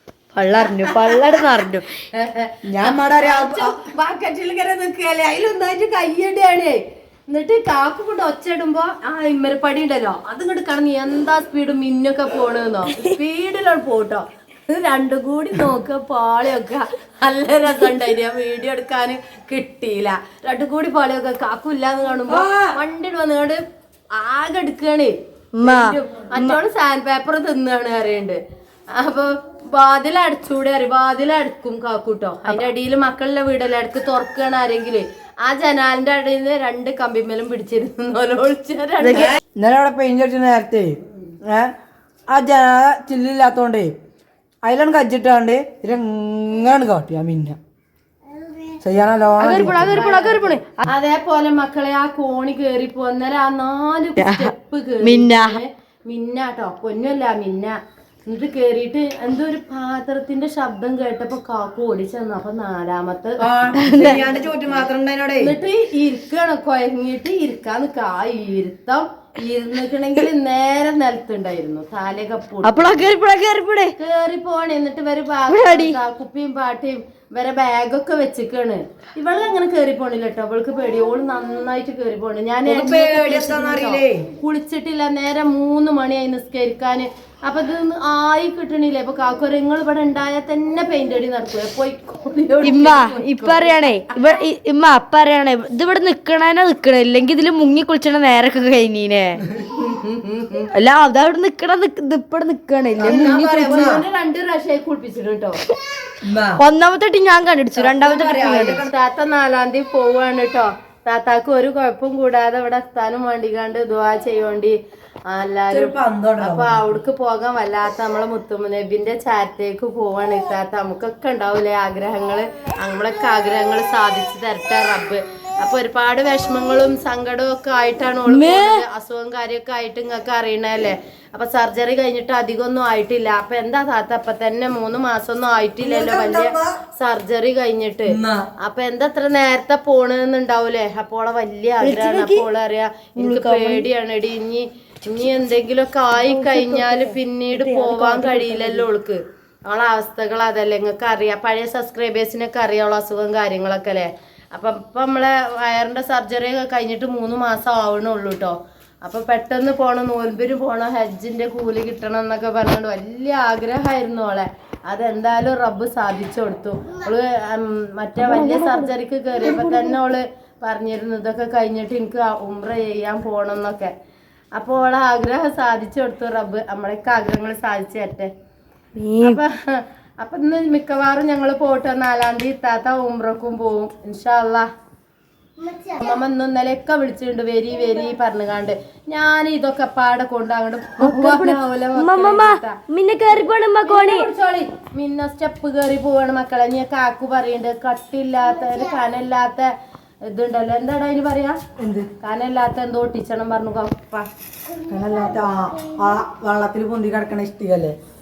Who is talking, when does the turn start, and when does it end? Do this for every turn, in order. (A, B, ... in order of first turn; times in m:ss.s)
0:00.3-0:01.8 A
0:00.8-0:01.4 B
0:02.1-0:23.6 B
0:02.6-0:03.8 C
0:22.3-0:22.8 C
0:24.2-0:28.4 B
0:25.6-0:26.6 A
0:28.9-0:39.4 B
0:39.0-0:39.4 A
0:39.2-0:41.7 C
0:42.3-0:43.9 C
0:44.6-0:47.6 C
0:48.8-0:50.0 C
0:49.4-0:50.8 A
0:49.8-1:04.9 B
0:54.2-0:55.6 A
1:03.4-1:05.5 C
1:03.8-1:04.2 A
1:05.4-1:12.9 B
1:12.6-1:13.9 A
1:14.0-1:33.8 B
1:15.5-1:16.0 A
1:22.6-1:24.3 C
1:32.6-1:39.4 A
1:39.7-1:40.7 B
1:40.7-1:43.8 A
1:43.0-1:44.0 C
1:43.0-1:45.6 B
1:46.2-1:46.6 C
1:46.6-1:48.8 A
1:47.8-1:48.9 C
1:48.8-1:54.7 B
1:55.3-2:53.9 B
1:55.7-1:56.8 C
2:08.2-2:08.8 A
2:15.8-2:16.8 C
2:18.1-2:18.4 C
2:21.8-2:22.4 A
2:23.2-2:23.9 A
2:26.2-2:28.8 A
2:48.2-2:48.9 A
2:49.4-2:50.0 A
2:54.5-2:58.3 B
2:59.0-2:59.4 A
2:59.2-3:04.7 B
3:05.7-3:12.8 B
3:11.0-3:14.3 A
3:13.8-3:19.7 B
3:20.2-3:21.6 B
3:21.8-3:22.1 C
3:22.2-3:24.3 B
3:24.9-3:28.0 C